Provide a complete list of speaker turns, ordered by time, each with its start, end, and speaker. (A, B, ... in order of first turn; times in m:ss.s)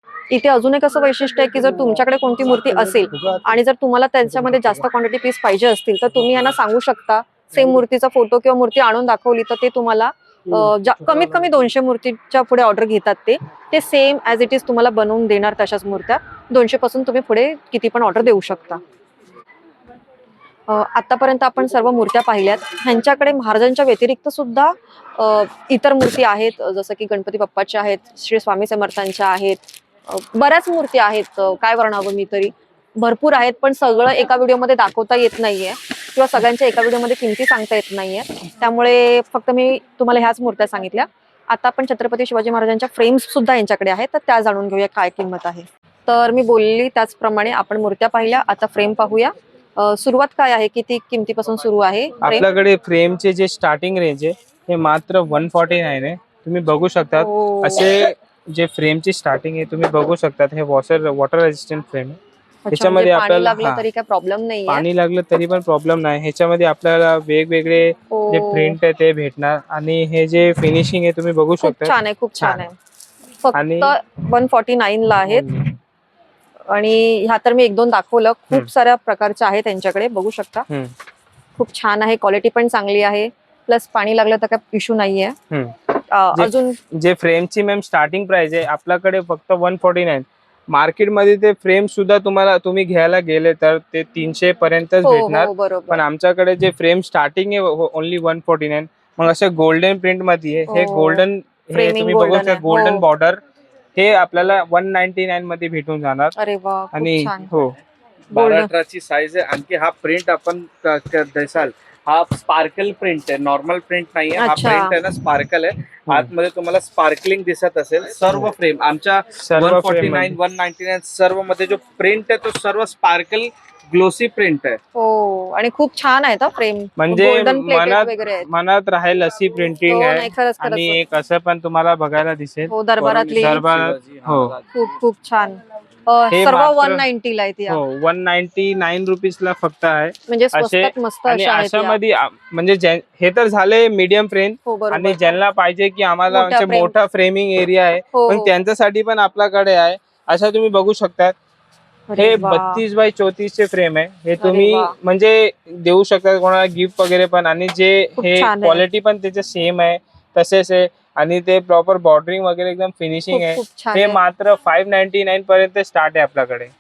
0:00.3-0:18.8 A
0:20.7-0:52.4 A
0:52.2-1:02.2 B
0:57.2-0:57.9 A
1:02.7-1:04.8 A
1:02.7-1:03.8 B
1:04.7-1:12.6 B
1:08.1-1:08.8 A
1:11.6-1:12.7 A
1:13.4-1:15.5 A
1:13.5-1:13.9 B
1:15.2-1:15.7 B
1:16.7-1:20.7 A
1:20.7-1:20.9 B
1:21.6-1:25.4 A
1:26.1-1:26.8 A
1:26.3-1:43.4 B
1:35.0-1:36.0 A
1:40.7-1:43.0 A
1:43.9-1:46.3 B
1:46.4-1:47.5 A
1:46.9-1:47.8 B
1:48.3-2:04.8 C
1:48.3-1:48.7 A
1:54.4-1:55.0 A
1:59.4-2:00.4 B
2:04.9-2:08.5 A
2:07.0-2:12.7 B
2:09.9-2:11.0 A
2:12.7-2:13.6 A
2:13.0-2:14.9 C
2:13.3-2:14.5 B
2:14.7-2:17.8 A
2:16.3-2:17.0 B
2:17.7-2:31.4 B
2:20.3-2:22.0 A
2:24.6-2:25.2 A
2:26.3-2:26.9 A
2:28.1-2:28.5 A
2:32.1-2:32.8 A
2:32.2-2:46.7 B
2:34.4-2:35.0 A
2:38.2-2:38.8 A
2:43.3-2:44.2 A